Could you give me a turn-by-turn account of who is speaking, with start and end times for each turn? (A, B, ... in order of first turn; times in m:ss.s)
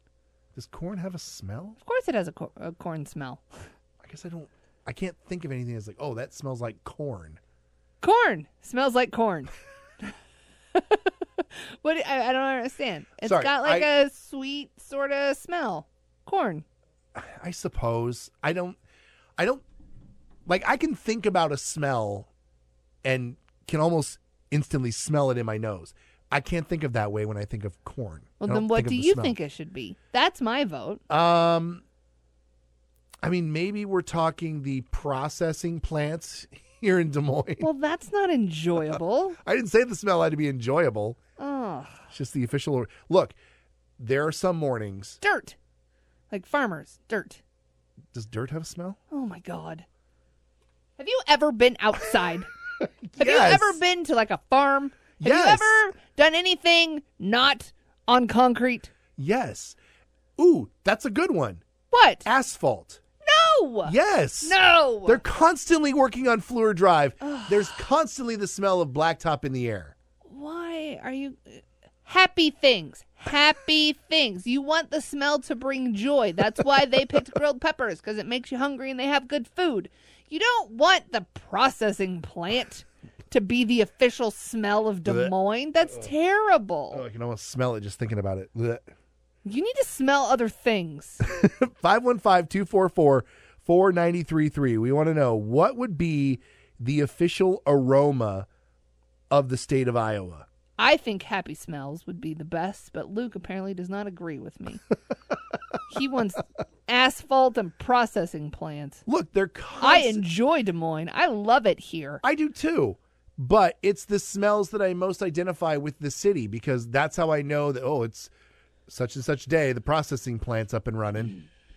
0:00.5-0:01.8 A
0:01.8-0:03.6 B
0:04.0-0:07.4 A
0:08.0-0:10.1 B
0:10.7-0:16.6 B
0:13.2-0:13.9 A
0:17.1-0:18.8 A
0:19.4-0:19.6 A
0:20.4-0:22.3 A
0:23.0-0:29.4 A
0:28.4-0:31.0 B
0:31.1-0:31.8 A
0:33.2-0:37.7 A
0:37.6-0:39.4 B
0:39.4-0:41.2 A
0:41.4-0:42.1 B
0:42.1-0:43.4 A
0:44.0-0:45.2 A
0:45.2-0:45.6 B
0:46.3-0:47.4 B
0:48.1-0:49.0 A
0:49.1-0:49.8 B
0:51.0-0:52.5 B
0:53.1-0:53.8 A
0:53.2-0:58.9 B
0:55.2-0:55.8 A
0:59.2-0:59.8 A
1:00.4-1:01.6 A
1:01.9-1:02.3 B
1:02.2-1:03.0 A
1:03.2-1:05.2 B
1:03.8-1:09.9 A
1:07.2-1:07.8 B
1:10.2-1:27.0 B
1:25.0-1:25.3 A
1:25.8-1:26.1 A
1:26.9-1:28.8 A
1:29.4-1:31.2 B
1:31.2-1:38.5 A
1:39.3-1:40.4 A
1:40.8-1:44.8 B
1:45.9-1:49.0 B
1:49.0-1:50.2 A
1:49.8-1:52.2 B
1:52.2-1:58.3 A
1:58.9-2:01.4 A